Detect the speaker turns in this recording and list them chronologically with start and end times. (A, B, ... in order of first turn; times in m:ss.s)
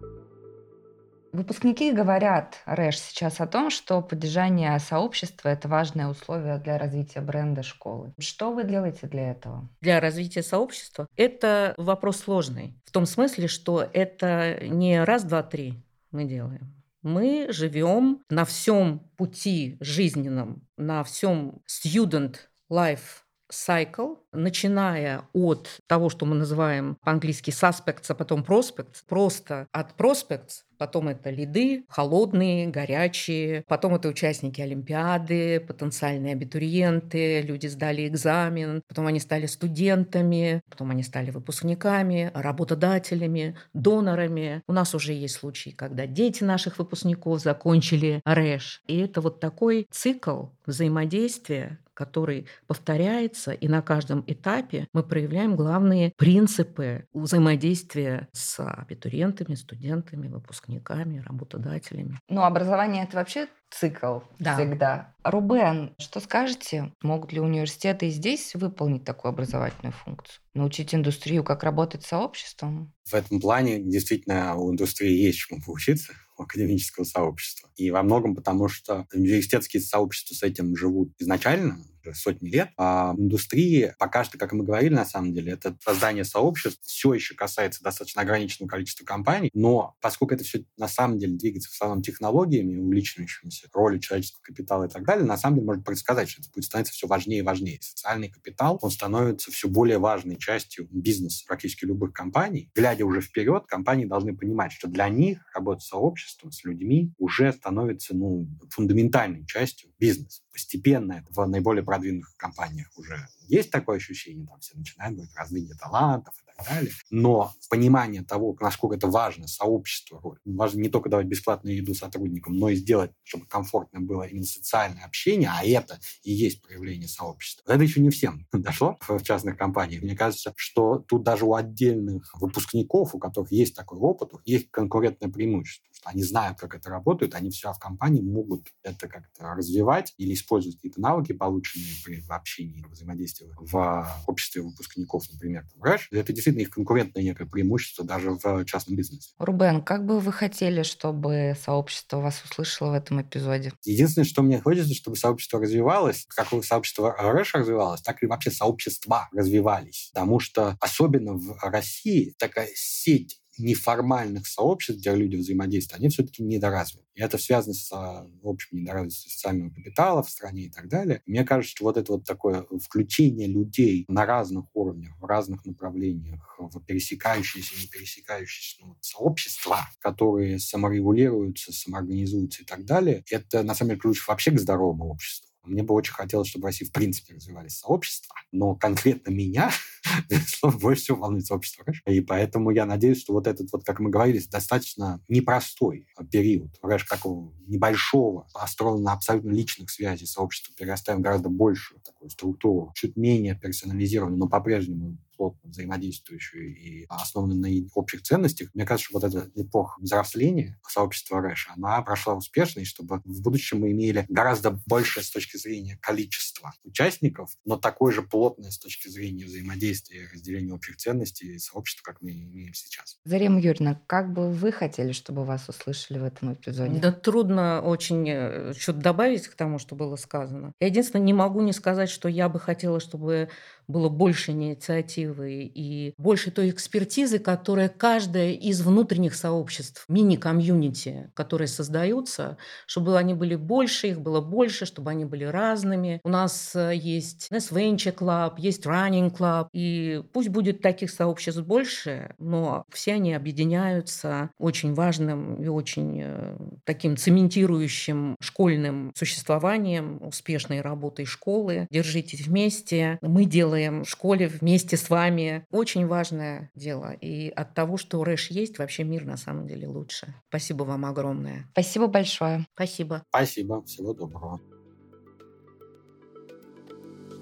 0:01.3-0:09.7 A
0:09.8-1:02.2 B
1:02.3-1:12.9 A
1:04.4-1:04.7 B
1:13.1-2:29.3 C
2:29.4-2:33.7 A
2:33.8-3:43.1 C
3:43.2-3:47.0 A
3:46.8-4:31.7 B
4:31.8-4:32.6 A
4:32.8-4:33.2 B
4:33.3-4:34.6 C